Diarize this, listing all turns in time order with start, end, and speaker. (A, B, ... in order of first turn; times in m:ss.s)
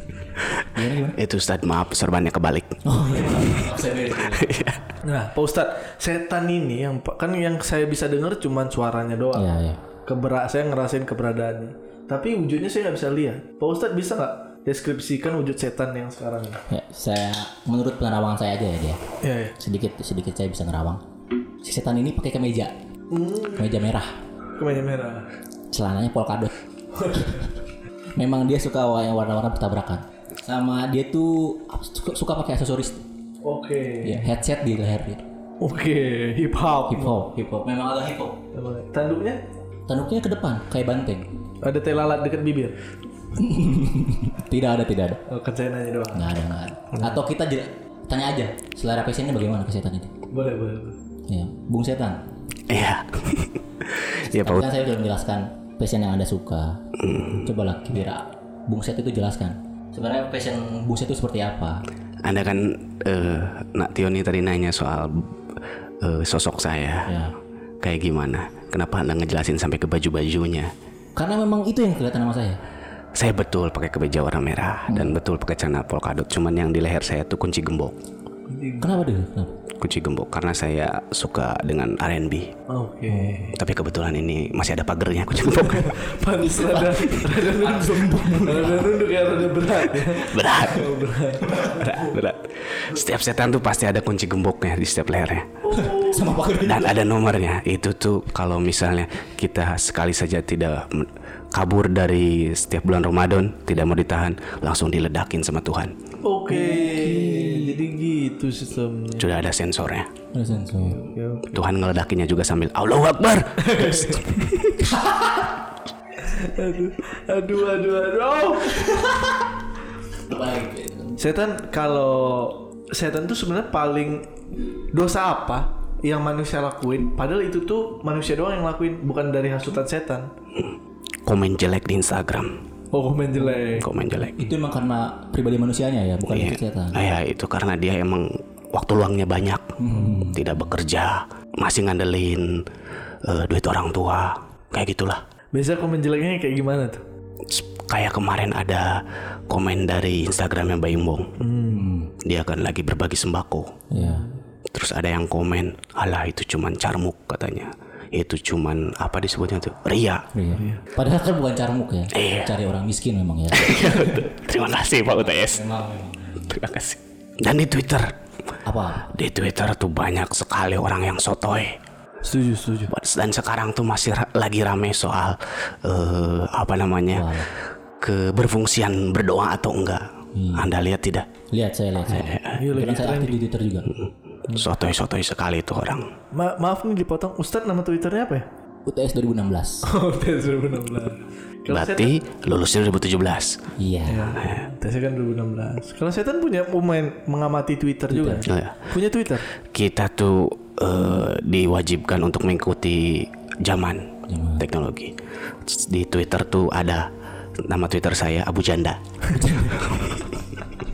0:00.7-0:01.2 A
0:01.2-0:02.8 B
0:02.8-0:04.6 A
0:04.2-0:04.8 B
0:05.0-0:09.5 C
0:09.3-0:09.8 A
0:10.0-0:16.6 C
0:16.7-0:19.0 A
0:19.2-0:19.5 C
0:19.6-0:21.0 A
0:21.6-0:22.7 A
0:23.1-0:23.8 C
0:23.6-0:24.1 A
0:24.6-0:25.3 C
0:25.7-0:26.5 A
0:27.0-0:27.4 C
0:27.1-0:27.4 A
0:28.2-0:33.0 A
0:33.4-0:34.3 C
0:34.0-0:35.2 A
0:35.6-0:37.2 C
0:36.9-0:38.4 A
0:38.5-0:39.4 C
0:39.9-0:41.3 A
0:41.6-0:42.7 C
0:43.3-0:45.2 A
0:45.3-0:46.3 C
0:46.1-0:50.1 A
0:46.9-0:47.2 C
0:50.3-0:51.0 C
0:51.3-0:52.2 A
0:52.7-0:54.7 B
0:54.2-0:56.8 A
0:57.0-0:57.4 B
0:57.4-1:01.8 A
1:02.2-1:05.3 B
1:06.0-1:07.1 B
1:07.0-1:07.3 A
1:07.8-1:10.7 B
1:11.2-1:12.6 A
1:13.2-1:18.0 B
1:14.9-1:15.2 A
1:18.5-1:19.0 C
1:18.8-1:19.5 A
1:19.8-1:22.5 B
1:22.7-1:23.6 C
1:23.1-1:23.5 A
1:23.5-1:26.0 B
1:25.5-1:32.1 C
1:26.6-1:29.0 A
1:30.2-1:31.0 B
1:31.7-1:35.5 B
1:35.6-1:36.4 C
1:35.7-1:37.0 A
1:36.6-1:45.9 B
1:46.2-1:49.4 C
1:46.5-1:47.8 A
1:49.2-1:50.1 B
1:50.3-1:51.0 A
1:50.6-1:51.5 C
1:51.5-1:54.5 B
1:53.6-1:54.7 C
1:54.8-1:55.5 A
1:56.2-1:59.3 C
2:00.3-2:01.2 A
2:01.2-2:04.3 C
2:04.9-2:10.3 C
2:11.2-2:12.6 B
2:12.9-2:13.9 C
2:13.4-2:13.7 A
2:13.8-2:14.5 B
2:14.3-2:17.0 A
2:16.3-2:22.6 B
2:19.8-2:20.4 A
2:23.2-2:25.2 B
2:25.5-2:27.0 C
2:27.5-2:28.9 B
2:29.5-2:31.3 B
2:31.4-2:31.9 C
2:31.7-2:32.1 A
2:32.2-2:33.8 B
2:33.9-2:34.3 A
2:33.9-2:34.4 C
2:34.7-2:40.2 B
2:40.3-2:44.2 A
2:40.5-2:40.8 C
2:42.1-2:42.5 B
2:43.5-2:45.7 B
2:45.2-2:46.6 A
2:46.4-2:48.1 B
2:48.6-2:49.1 A
2:49.1-2:51.8 B
2:52.2-2:52.9 C
2:52.9-2:57.4 B
2:57.1-2:57.5 A
2:58.0-3:01.3 B
3:00.3-3:00.7 A
3:01.5-3:03.9 A
3:02.0-3:02.6 B
3:02.5-3:03.4 C
3:03.9-3:06.1 B
3:06.3-3:08.4 C
3:08.8-3:09.8 A
3:09.8-3:12.1 C
3:11.7-3:13.6 B
3:13.8-3:14.4 A
3:14.0-3:19.4 C
3:18.1-3:18.4 A
3:18.4-3:18.7 B
3:19.7-3:27.1 B
3:24.3-3:24.6 A
3:27.6-3:29.0 B
3:29.3-3:29.9 A
3:29.8-3:30.2 B